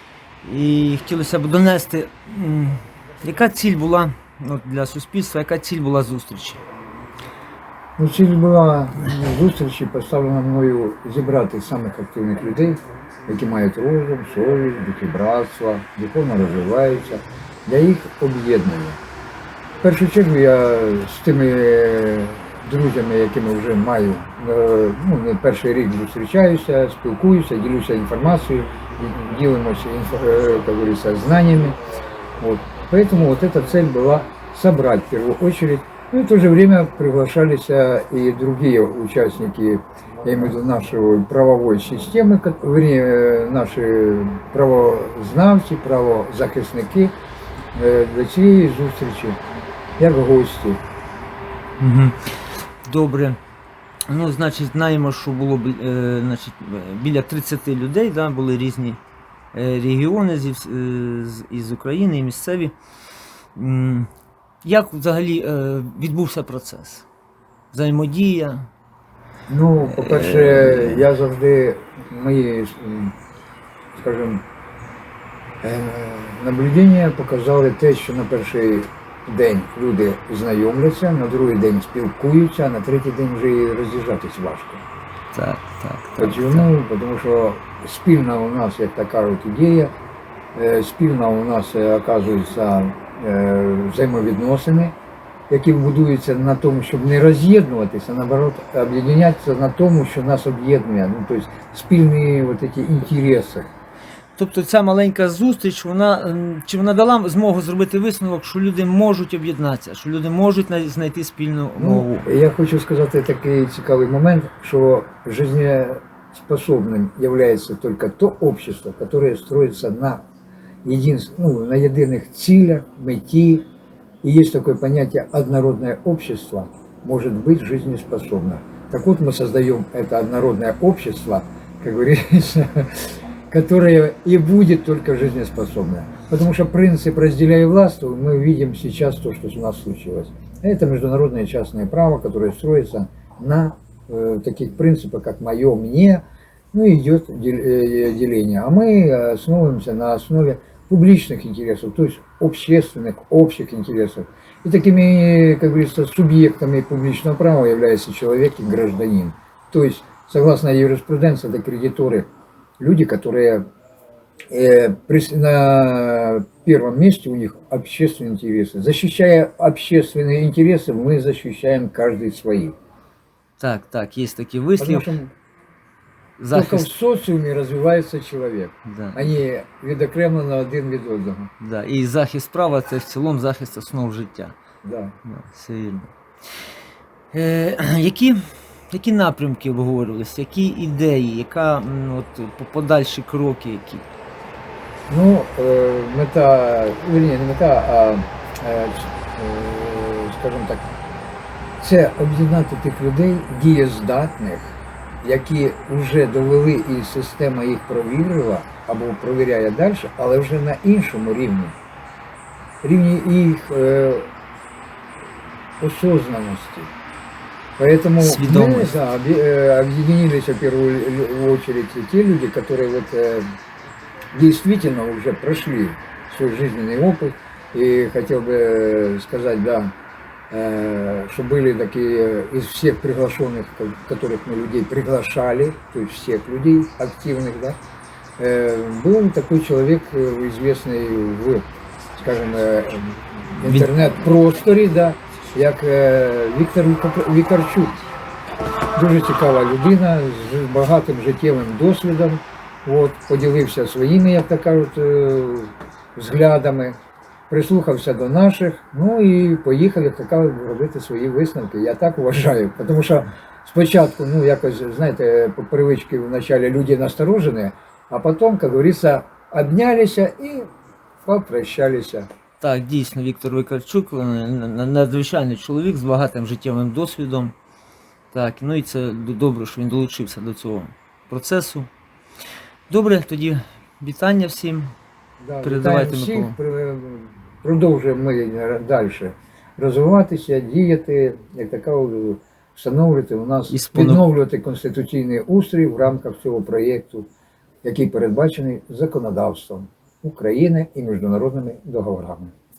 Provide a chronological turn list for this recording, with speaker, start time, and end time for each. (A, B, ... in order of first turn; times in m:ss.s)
0:00.4-0:06.6 A
0:08.0-0:19.0 B
0:19.8-0:31.8 B
0:32.4-0:47.1 B
0:47.8-0:49.4 B
0:50.0-0:50.8 B
0:51.8-0:53.4 A
0:54.1-0:59.0 A
0:59.5-1:02.8 A
1:03.6-1:04.1 A
1:04.6-1:07.1 A
1:07.7-1:08.7 A
1:09.5-1:13.2 B
1:09.8-1:11.1 A
1:13.9-1:14.4 B
1:15.6-1:24.8 B
1:25.3-1:26.7 A
1:26.2-1:29.9 B
1:30.6-1:35.0 B
1:35.5-1:43.7 B
1:44.4-1:52.3 A
1:51.8-2:00.2 B
2:00.8-2:03.7 B
2:04.2-2:43.7 B
2:44.5-2:52.8 B
2:53.6-2:55.1 A
2:54.8-2:55.3 B
2:56.4-2:56.9 A
2:56.5-3:01.5 B
2:58.9-2:59.2 A
3:01.6-3:04.6 A
3:04.8-3:05.1 B
3:05.2-3:06.1 A
3:07.3-3:08.4 A
3:08.9-3:14.1 A
3:15.1-3:20.9 B
3:21.8-3:31.8 B
3:32.8-3:34.3 B
3:35.8-3:36.9 B
3:37.8-3:43.5 B
3:38.2-3:38.9 A
3:44.3-3:49.9 B
3:50.5-3:57.8 B
3:58.4-4:01.6 B
4:02.2-4:08.1 B
4:03.6-4:04.0 A
4:09.0-4:17.0 B
4:17.5-4:30.7 B
4:31.2-4:32.3 B
4:32.6-4:37.5 A
4:38.3-4:41.9 A
4:42.9-4:44.9 A
4:45.4-4:57.3 B
4:45.6-4:46.6 A
4:53.7-4:54.2 A
4:57.8-5:02.5 B